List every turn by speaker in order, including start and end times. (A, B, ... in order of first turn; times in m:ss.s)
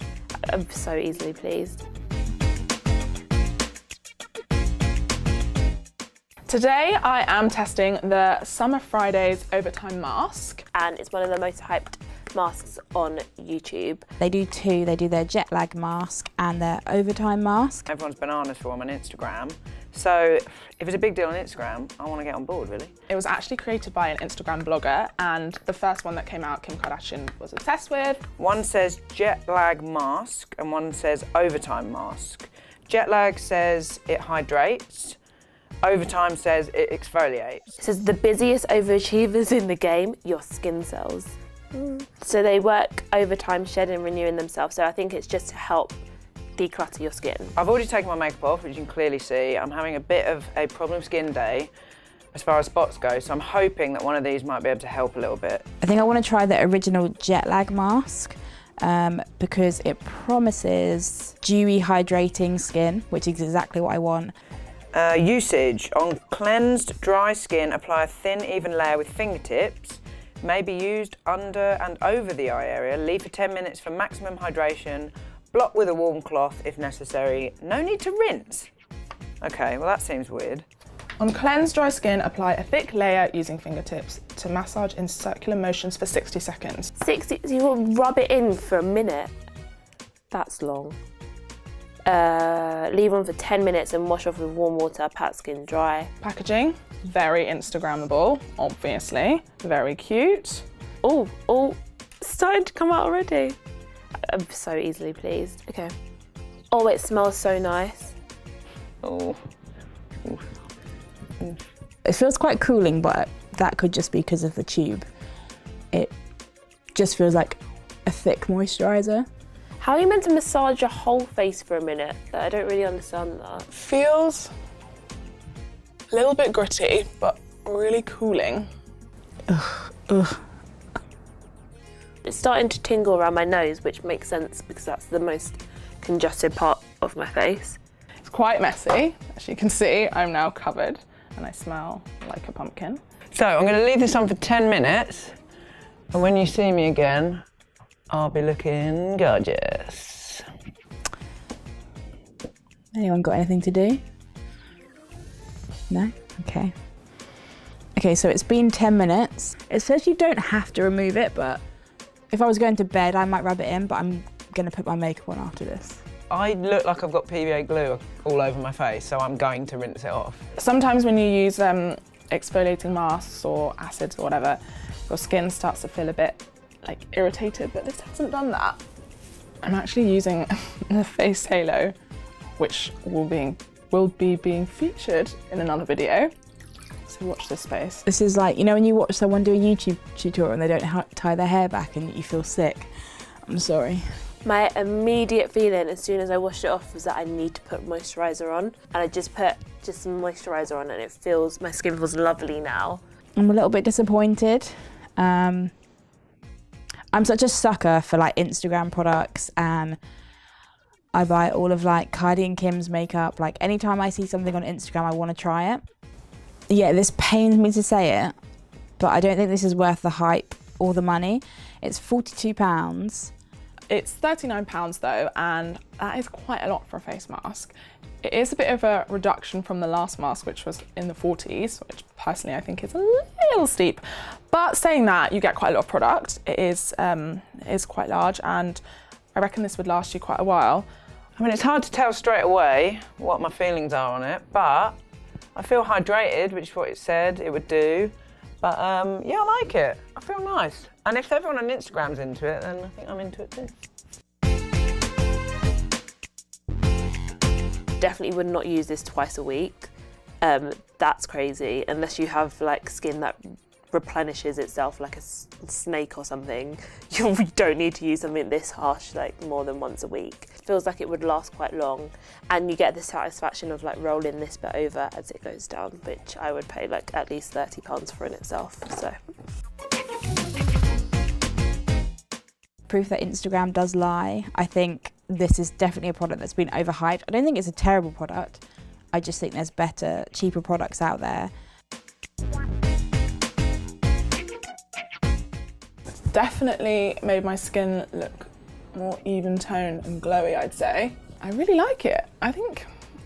0:00.4-0:01.8 A
0:06.5-0:10.6 B
0:10.7-0:14.1 A
0:14.2-0:17.9 C
0:17.9-0:22.9 D
0:23.1-0:28.2 B
0:28.4-0:35.2 D
0:35.8-0:37.7 D
0:37.8-0:46.0 A
0:46.6-0:47.5 A
0:47.6-0:51.7 D
0:52.3-0:55.6 D
0:55.8-1:04.3 C
1:04.9-1:18.7 D
1:19.4-1:20.6 D
1:21.2-1:26.9 B
1:27.0-1:29.3 A
1:30.3-1:31.0 A
1:32.0-1:36.1 A
1:36.2-1:40.6 B
1:41.0-1:43.6 A
1:44.2-1:45.9 A
1:46.7-1:48.1 A
1:49.0-1:49.4 D
1:52.0-1:55.0 C
1:56.9-1:59.3 C
1:59.8-2:03.7 A
2:03.7-2:04.5 B
2:06.1-2:08.7 B
2:09.5-2:10.4 C
2:12.2-2:17.8 A
2:18.2-2:23.0 B
2:23.3-2:25.4 D
2:26.1-2:27.4 D
2:28.1-2:30.4 D
2:32.9-2:34.0 C
2:35.9-2:36.7 C
2:37.9-2:41.6 C
2:42.3-2:46.0 C
2:46.3-2:50.4 D
2:50.6-2:58.8 B
2:59.6-3:01.9 B
3:02.6-3:06.3 B
3:07.1-3:08.0 B
3:08.0-3:14.1 C
3:14.4-3:23.0 A
3:23.4-3:25.7 C
3:27.1-3:30.0 C
3:31.1-3:35.8 C
3:36.7-3:38.3 C
3:39.0-3:43.3 C
3:43.9-3:58.8 B
3:59.3-4:00.9 B
4:01.4-4:05.0 D
4:05.5-4:13.7 D
4:18.0-4:19.9 A
4:20.4-4:39.1 A
4:42.8-4:48.6 C
4:49.1-4:51.5 C
4:56.3-5:02.9 B